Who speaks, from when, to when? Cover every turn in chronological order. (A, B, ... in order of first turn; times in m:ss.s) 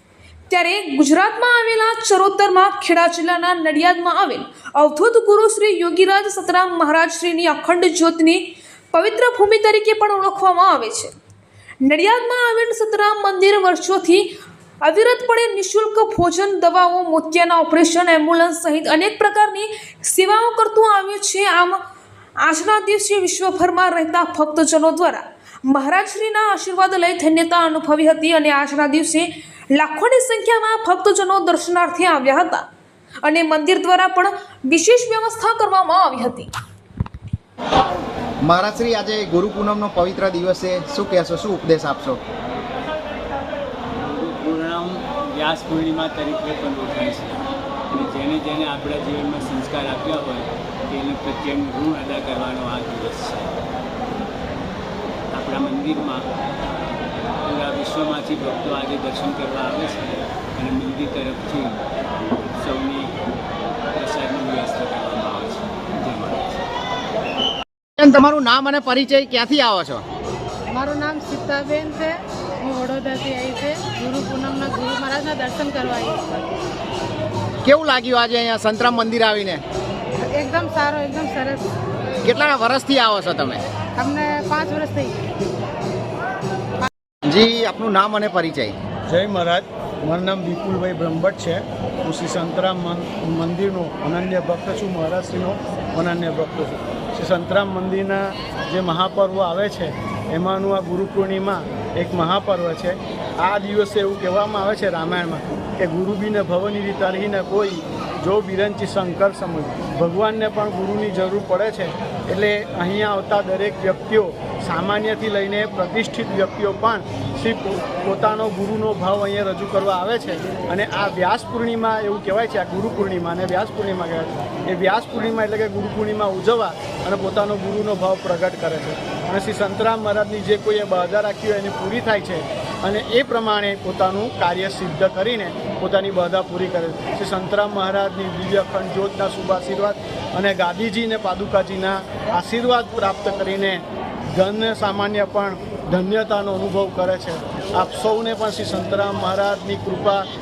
0:00.5-0:11.1 A
0:11.8-0:14.3 A
0:14.8-0:21.8 A
0:22.4-0:32.6 A
0:33.2-0:36.5 A
0:38.4-0:42.2 B
0:44.0-0:53.5 C
0:55.3-0:56.2 C
0:57.4-1:01.8 C
1:02.6-1:03.1 C
1:03.9-1:06.5 C
1:08.0-1:10.0 B
1:10.7-1:16.4 D
1:17.6-1:19.6 B
1:20.3-1:21.6 D
1:22.2-1:23.6 B
1:24.0-1:25.2 D
1:27.2-1:28.8 B
1:29.1-2:30.3 E